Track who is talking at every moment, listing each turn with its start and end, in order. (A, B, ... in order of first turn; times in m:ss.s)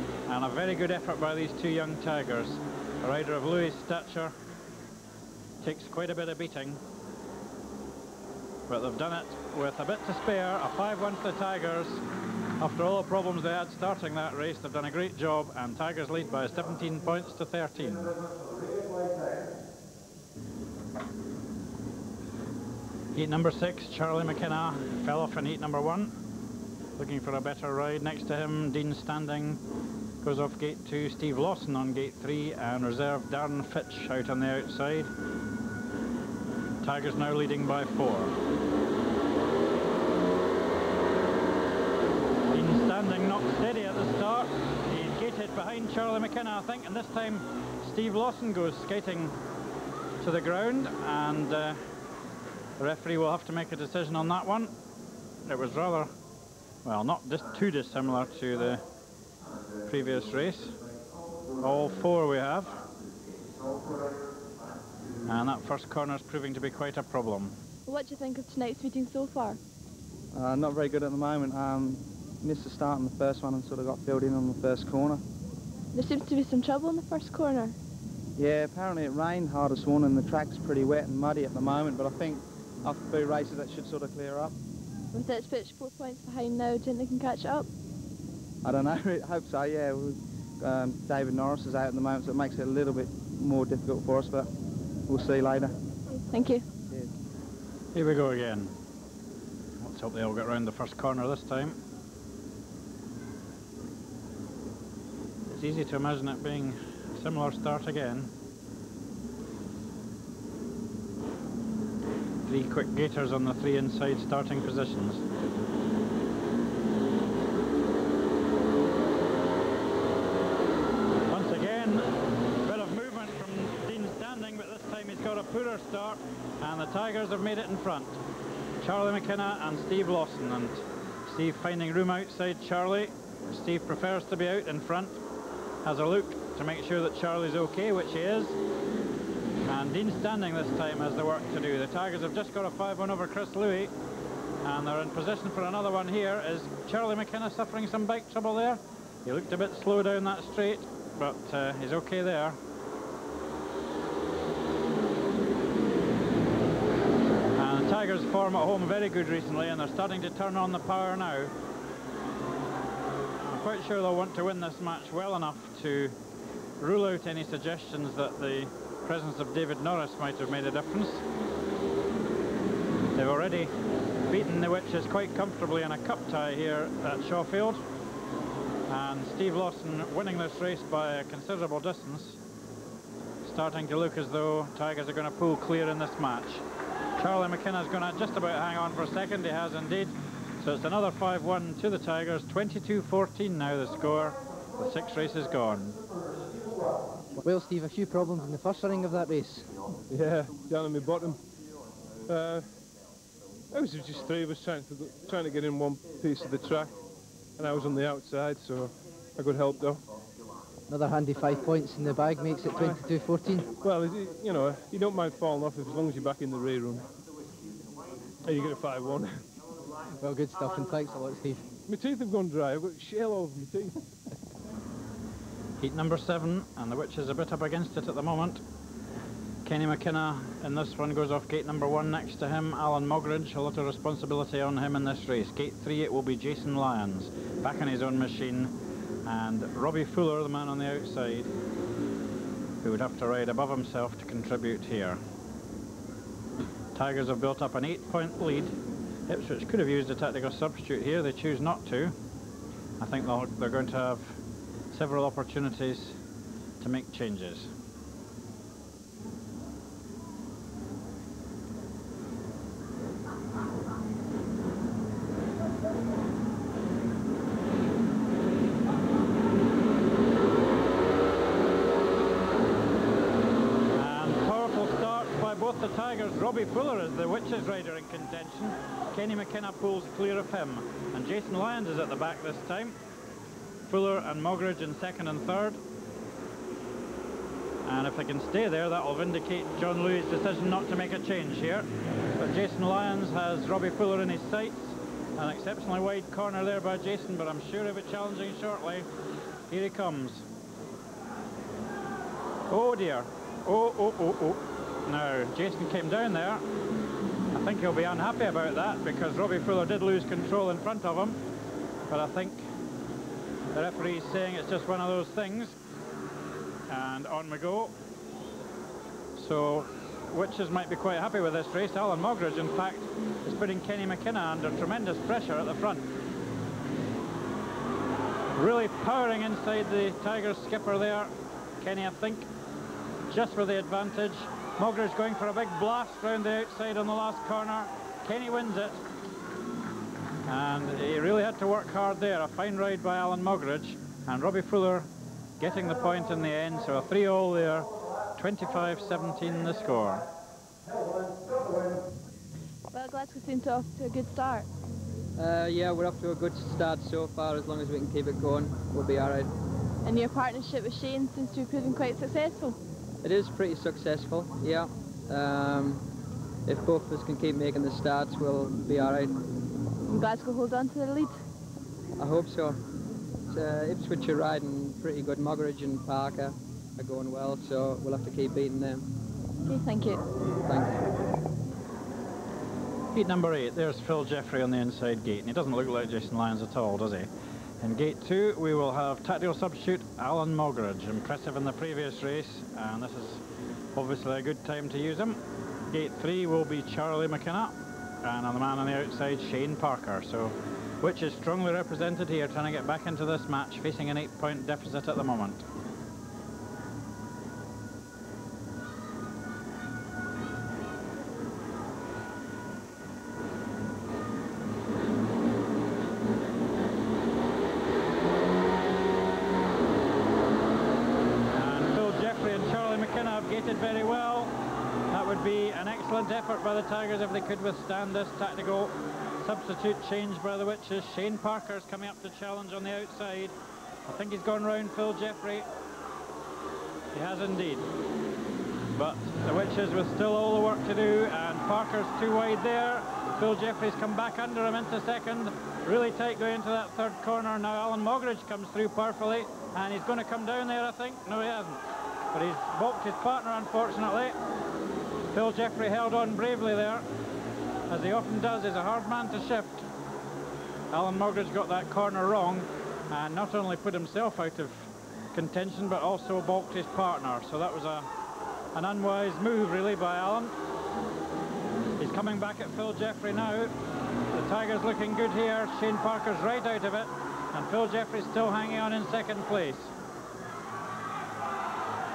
0:00.3-0:04.3 A
0:05.6-0:06.8 A
0:08.7-0:12.0 A
0:12.6-0:18.1 A
0:23.1-0:26.1 A
0:27.0-0:29.6 A
0:30.2-0:35.1 A
0:36.8-0:38.3 A
0:42.5-0:49.4 A
0:50.2-0:51.8 A
0:52.8-0:54.7 A
0:55.4-0:56.1 A
0:56.8-0:58.8 A
0:59.9-1:00.8 A
1:01.6-1:02.8 A
1:05.3-1:07.6 A
1:07.8-1:09.6 B
1:10.3-1:15.2 C
1:15.9-1:17.8 B
1:18.4-1:24.5 C
1:25.1-1:27.7 B
1:28.6-1:34.5 C
1:35.1-1:35.7 C
1:36.1-1:36.6 B
1:37.9-1:38.7 A
1:39.8-1:41.8 A
1:45.5-1:48.3 A
1:52.4-1:55.2 A
2:01.3-2:02.1 A
2:02.6-2:08.2 A
2:08.8-2:15.2 A
2:15.8-2:18.6 A
2:19.6-2:23.9 A
2:24.6-2:32.6 A
2:37.6-2:41.5 A
2:43.4-2:46.1 A
2:46.8-2:51.2 A
2:53.2-2:53.7 A
2:54.3-2:57.8 A
2:58.9-3:02.4 A
3:03.4-3:06.6 A
3:07.2-3:16.0 A
3:17.4-3:19.7 D
3:20.1-3:21.4 E
3:22.3-3:22.6 E
3:23.7-3:26.9 E
3:27.6-3:30.0 E
3:30.9-3:33.7 D
3:33.8-3:37.1 E
3:38.4-3:39.4 E
3:40.2-3:41.6 D
3:41.9-3:44.0 E
3:45.8-3:48.6 A
3:49.6-3:58.7 A
3:59.2-4:01.5 A
4:02.8-4:05.2 A
4:06.9-4:08.7 A
4:09.3-4:12.1 A
4:13.0-4:14.4 A
4:14.9-4:16.2 A
4:16.8-4:17.7 A
4:33.9-4:43.0 A
4:43.9-4:45.8 A
4:47.8-4:59.1 A
4:59.7-5:00.4 A
5:02.7-5:06.6 A
5:07.5-5:11.4 A
5:12.1-5:12.7 A
5:13.7-5:15.8 A
5:16.9-5:17.9 A
5:19.4-5:26.1 A
5:28.5-5:32.5 A
5:33.3-5:39.0 A
5:40.5-5:45.1 A
5:45.6-5:50.3 A
5:52.9-5:54.7 B
5:55.4-5:59.5 F
6:00.0-6:02.8 B
6:03.2-6:06.0 F
6:06.7-6:09.3 F
6:10.1-6:11.3 B
6:12.2-6:12.8 F
6:13.5-6:19.0 F
6:19.6-6:20.2 B
6:20.6-6:21.1 F
6:23.1-6:27.3 A
6:27.8-6:33.4 A
6:33.9-6:35.4 A
6:35.9-6:45.6 A
7:01.5-7:04.5 A
7:05.1-7:13.5 A
7:14.1-7:15.6 A
7:17.1-7:17.9 A
7:18.9-7:31.8 A
7:32.3-7:34.3 A
7:35.3-7:37.0 A
7:37.9-7:39.9 A
7:40.9-7:48.1 A
7:48.7-7:50.5 A
7:52.0-7:53.7 A
7:54.3-7:59.9 A